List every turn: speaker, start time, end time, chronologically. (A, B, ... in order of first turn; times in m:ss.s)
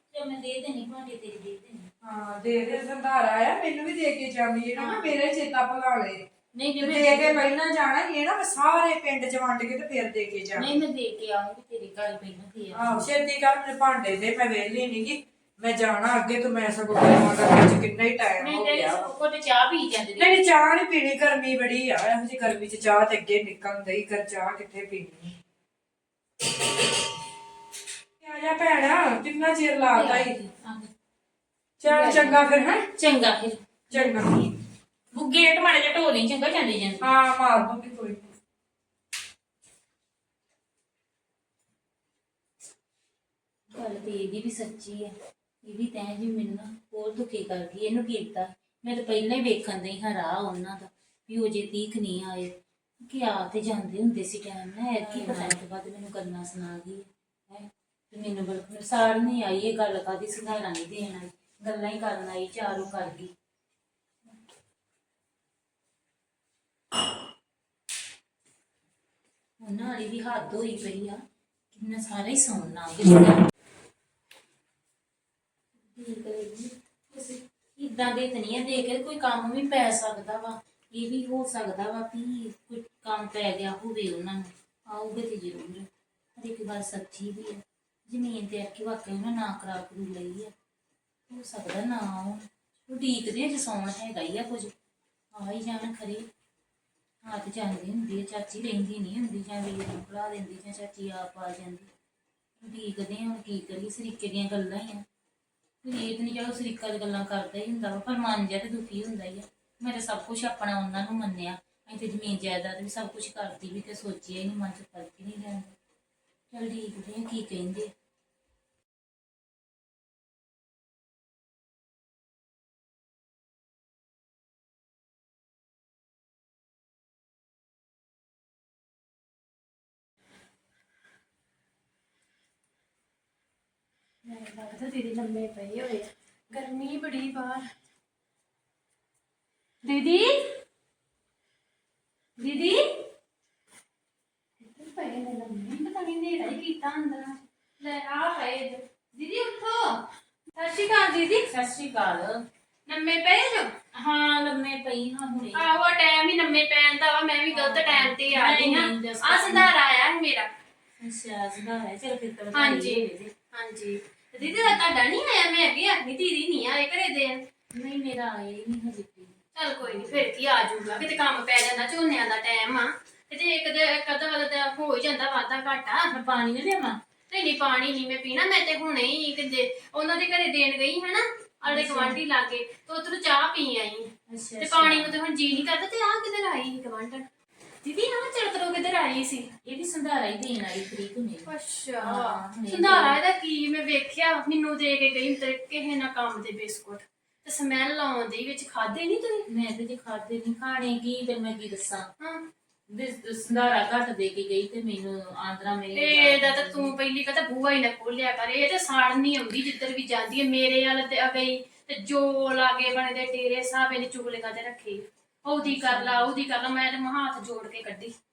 0:00.1-0:01.9 A
0:02.0-0:06.3 B
0:04.8-0:05.2 A
0:06.5-0:07.4 A
0:06.8-0:10.7 B
0:10.5-0:13.0 A
0:12.7-0:19.1 B
0:18.4-0:20.4 A
0:20.2-0:25.4 B
0:28.2-0:30.3 B
0:29.9-0:30.9 A
0:31.8-0:32.9 B
0:31.8-0:32.4 A
0:32.9-0:34.3 A
0:33.9-0:34.5 B
0:35.1-0:37.1 A
0:37.0-0:38.3 B
0:43.7-1:03.3 A
1:09.6-1:11.2 A
1:11.7-1:13.4 A
1:15.9-1:30.5 A
1:31.3-1:34.7 A
1:35.3-1:36.3 A
1:37.2-1:41.9 A
1:42.6-1:45.0 A
1:45.8-1:55.7 A
1:56.5-1:57.9 A
2:14.2-2:17.7 C
2:19.8-2:20.5 C
2:22.4-2:23.1 C
2:24.6-2:31.5 C
2:31.4-2:32.4 A
2:32.9-2:33.7 C
2:33.9-2:35.7 A
2:35.5-2:40.5 C
2:37.5-2:39.7 A
2:41.0-2:43.3 A
2:42.5-2:47.4 C
2:44.4-2:44.8 A
2:47.7-2:50.3 A
2:49.6-2:56.1 C
2:56.1-2:57.0 A
2:57.3-3:07.2 C
3:01.6-3:02.2 A
3:04.3-3:05.1 A
3:07.8-3:09.5 C
3:09.6-3:13.2 A
3:11.5-3:19.4 C
3:19.5-3:22.1 A
3:22.9-3:26.9 A
3:25.9-3:38.1 C
3:35.6-3:36.3 A